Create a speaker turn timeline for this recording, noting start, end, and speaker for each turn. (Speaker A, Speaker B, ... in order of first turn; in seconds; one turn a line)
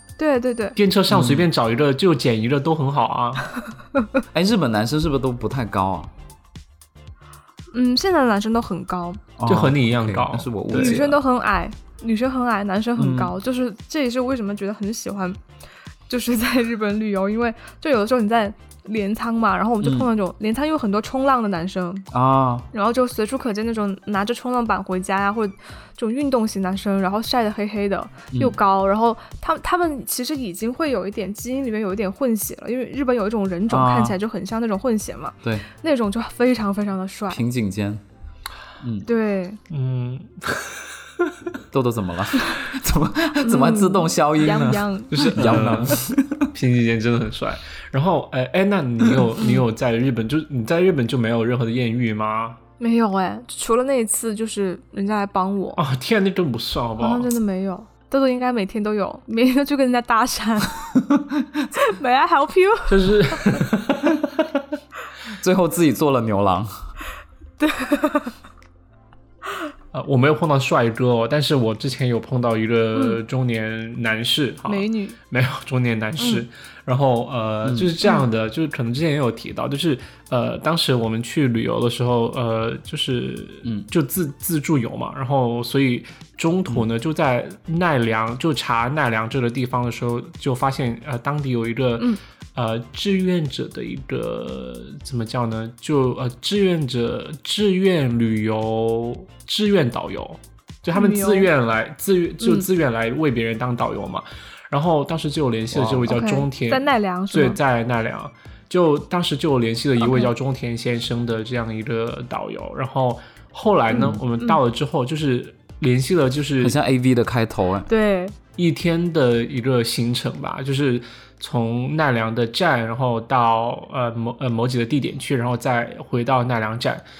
Speaker A: 0.2-0.8
Speaker B: 0.8-3.5
Speaker C: 1.1-1.5
Speaker C: 4.3-6.1
Speaker A: 7.7-9.2
Speaker C: 9.4-11.2
Speaker B: 9.4-11.0
Speaker A: 10.7-15.4
Speaker C: 13.0-13.3
Speaker A: 16.1-22.1
Speaker C: 19.8-20.1
Speaker C: 22.1-22.7
Speaker A: 22.7-37.4
Speaker C: 33.7-34.2
Speaker C: 37.3-38.0
Speaker C: 38.8-39.1
Speaker A: 39.0-39.6
Speaker B: 39.7-41.3
Speaker C: 41.7-46.5
Speaker A: 43.4-45.4
Speaker B: 45.1-52.6
Speaker A: 49.4-49.6
Speaker A: 52.8-55.8
Speaker B: 55.8-57.3
Speaker A: 57.0-60.8
Speaker C: 60.9-61.8
Speaker A: 61.8-63.4
Speaker B: 62.9-64.5
Speaker C: 65.4-66.7
Speaker A: 67.6-68.3
Speaker B: 69.9-116.8
Speaker A: 72.9-73.2
Speaker A: 74.7-75.2
Speaker A: 76.2-76.4
Speaker C: 77.6-77.9
Speaker A: 100.9-101.5
Speaker A: 102.4-102.7
Speaker C: 105.7-106.1
Speaker A: 106.1-107.6
Speaker A: 110.0-110.3
Speaker A: 113.9-114.6
Speaker C: 116.6-117.9
Speaker A: 117.9-118.3
Speaker B: 118.6-127.0